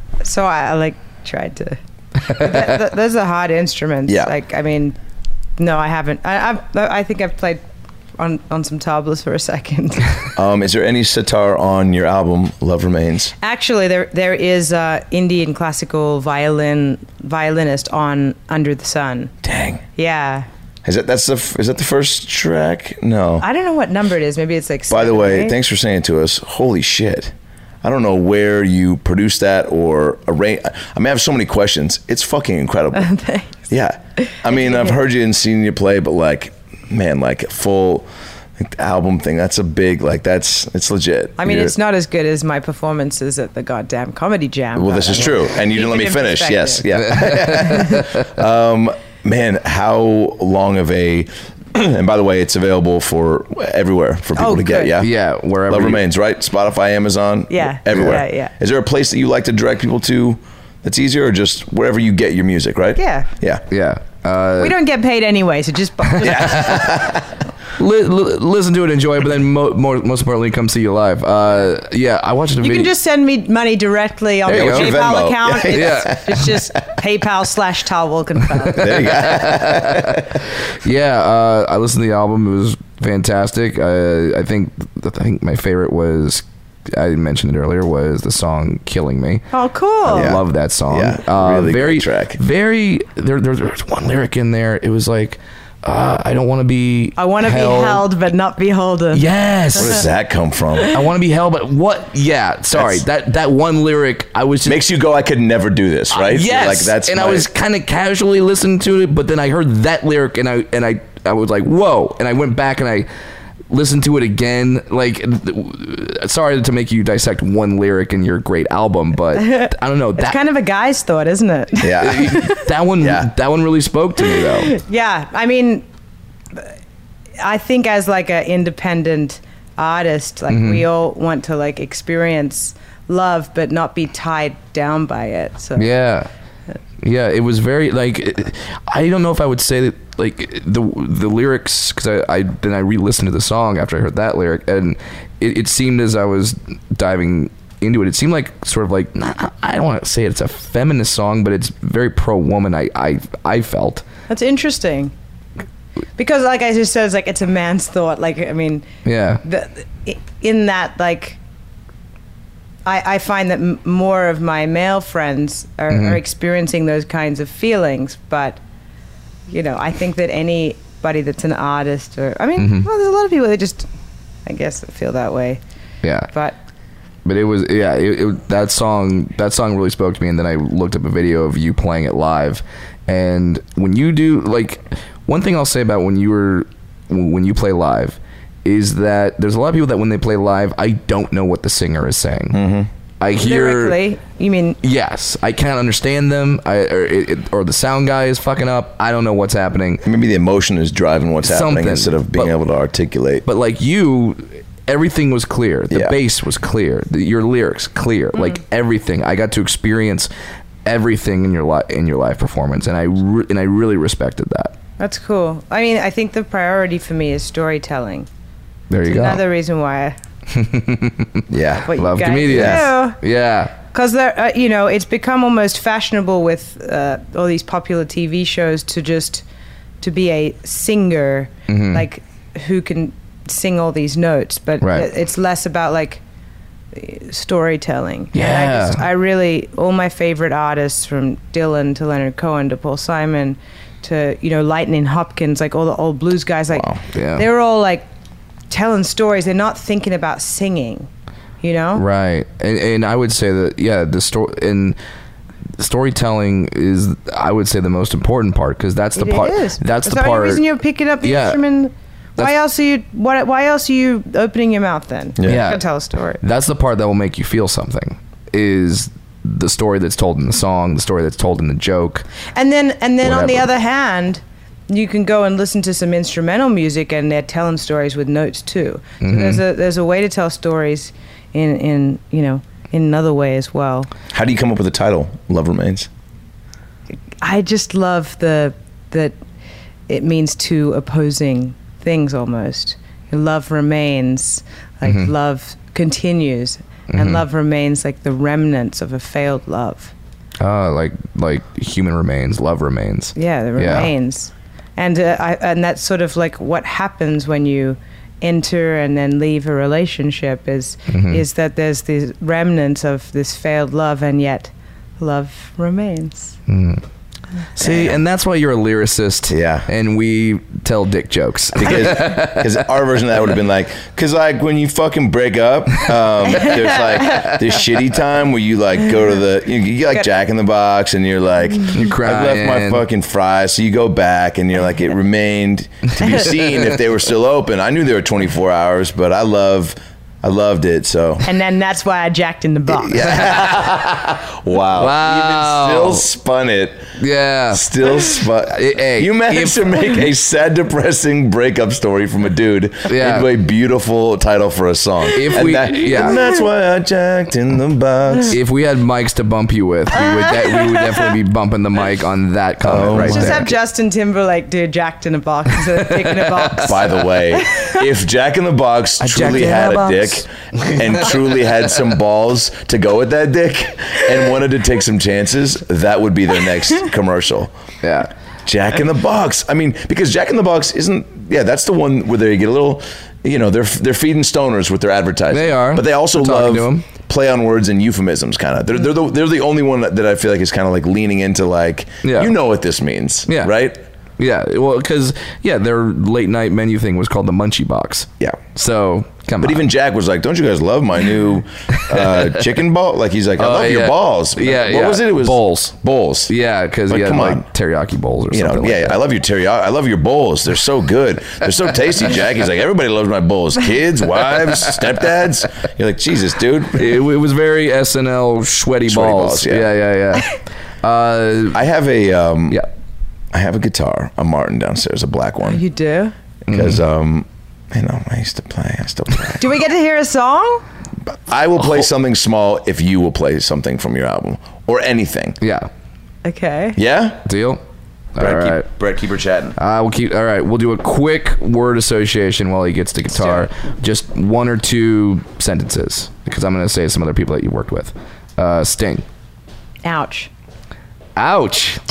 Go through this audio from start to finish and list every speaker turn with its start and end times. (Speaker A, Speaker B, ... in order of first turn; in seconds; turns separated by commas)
Speaker A: 0.2-5.0, Speaker B: 4.1-4.3, Speaker A: 5.6-7.6, Speaker A: 8.2-10.2, Speaker B: 10.3-13.3, Speaker A: 13.4-19.3, Speaker B: 19.4-19.8, Speaker A: 19.9-20.5, Speaker B: 20.8-23.4, Speaker A: 23.4-25.6, Speaker B: 24.9-33.1, Speaker A: 32.9-33.5, Speaker B: 33.7-41.7, Speaker A: 34.2-35.0, Speaker A: 41.4-47.9, Speaker B: 44.7-55.1, Speaker C: 47.0-48.2, Speaker A: 54.4-55.0, Speaker C: 55.0-56.0, Speaker B: 55.7-63.6, Speaker A: 57.5-58.5, Speaker A: 63.0-63.3, Speaker C: 63.7-64.8, Speaker A: 64.6-67.1, Speaker C: 66.2-66.9, Speaker B: 66.2-67.2, Speaker C: 67.8-72.9, Speaker A: 72.6-79.1, Speaker C: 74.5-74.9, Speaker B: 74.5-76.6, Speaker C: 75.7-76.5, Speaker B: 78.7-80.4, Speaker C: 78.8-89.5, Speaker A: 89.5-90.4, Speaker B: 90.1-92.4, Speaker C: 90.1-98.1, Speaker A: 97.2-99.2, Speaker C: 99.1-100.0, Speaker B: 99.7-100.9, Speaker C: 100.9-104.8, Speaker B: 102.7-103.0, Speaker B: 104.6-107.5, Speaker C: 106.1-113.1, Speaker C: 113.7-120.4, Speaker A: 119.4-122.7, Speaker B: 121.8-122.4, Speaker C: 122.0-124.7, Speaker B: 123.0-123.3, Speaker A: 124.2-125.8, Speaker A: 127.4-135.9, Speaker C: 130.5-130.9, Speaker C: 135.8-136.3, Speaker C: 137.0-154.0, Speaker A: 154.3-155.1, Speaker A: 156.2-158.9, Speaker C: 159.1-159.4, Speaker A: 159.4-161.4, Speaker A: 162.8-168.6, Speaker C: 165.9-166.2, Speaker A: 169.5-173.9, Speaker C: 172.6-172.9, Speaker A: 174.4-175.6, Speaker C: 176.0-176.3, Speaker A: 176.3-176.6, Speaker C: 177.2-192.6, Speaker B: 192.5-192.9, Speaker C: 193.2-194.0, Speaker A: 193.4-194.8, Speaker C: 194.8-200.0, Speaker B: 200.0-203.4, Speaker C: 201.4-202.5, Speaker C: 203.4-210.3, Speaker B: 205.9-206.2, Speaker A: 208.3-208.6, Speaker C: 210.8-214.8, Speaker A: 215.0-218.3, Speaker C: 218.9-219.4, Speaker A: 219.1-220.2, Speaker C: 220.5-223.7, Speaker B: 221.5-221.9, Speaker A: 221.8-223.2, Speaker B: 222.5-222.8, Speaker A: 223.8-229.4, Speaker A: 230.0-236.2, Speaker C: 231.7-232.1, Speaker C: 234.8-235.1, Speaker A: 236.9-248.1, Speaker C: 238.3-239.0, Speaker B: 246.7-247.0, Speaker C: 247.1-247.4, Speaker A: 248.7-251.1, Speaker A: 251.6-252.0, Speaker C: 251.9-255.0, Speaker C: 255.8-260.6, Speaker A: 259.1-266.4, Speaker C: 261.2-261.6, Speaker B: 265.4-265.7, Speaker C: 265.4-265.8, Speaker C: 266.4-272.2, Speaker A: 272.5-284.1, Speaker C: 273.2-273.7, Speaker C: 279.2-279.6, Speaker B: 284.3-286.1, Speaker A: 287.4-289.4, Speaker A: 290.1-300.1, Speaker C: 295.0-295.3, Speaker C: 297.1-297.4, Speaker C: 300.6-304.1, Speaker A: 303.3-316.6, Speaker C: 311.1-311.4, Speaker C: 316.7-317.0, Speaker C: 317.8-322.8, Speaker B: 317.8-318.2, Speaker B: 319.5-319.9, Speaker B: 321.8-341.5, Speaker A: 326.6-327.5, Speaker C: 331.9-333.0, Speaker A: 341.4-343.5, Speaker B: 342.9-347.2, Speaker C: 343.5-343.8, Speaker C: 344.9-346.2, Speaker C: 347.2-347.9, Speaker B: 347.7-358.6, Speaker C: 348.6-349.8, Speaker C: 353.1-353.5, Speaker C: 355.3-356.4, Speaker A: 356.2-356.6, Speaker C: 358.5-363.7, Speaker A: 360.1-361.3, Speaker B: 362.8-363.6, Speaker A: 363.1-368.0, Speaker C: 366.5-366.8, Speaker B: 366.8-377.7, Speaker C: 369.2-371.4, Speaker C: 378.0-378.3, Speaker B: 378.6-394.0, Speaker C: 385.5-387.1, Speaker C: 392.2-392.5, Speaker C: 394.4-399.9, Speaker B: 399.6-406.5, Speaker C: 402.0-402.6, Speaker C: 403.6-405.9, Speaker C: 406.5-409.2, Speaker B: 407.1-407.7, Speaker B: 408.5-417.2, Speaker C: 416.9-421.8, Speaker B: 419.1-419.9, Speaker B: 421.7-422.8, Speaker B: 423.5-425.8, Speaker A: 425.6-426.3, Speaker B: 426.7-429.8, Speaker C: 426.7-427.0, Speaker A: 429.6-430.8, Speaker B: 431.3-435.6, Speaker C: 435.6-435.9, Speaker A: 436.4-437.0, Speaker B: 436.9-437.5, Speaker C: 437.4-437.8, Speaker C: 438.3-438.9, Speaker B: 438.4-439.8, Speaker C: 439.8-449.2, Speaker B: 443.3-443.7, Speaker A: 450.0-450.5, Speaker C: 451.4-452.0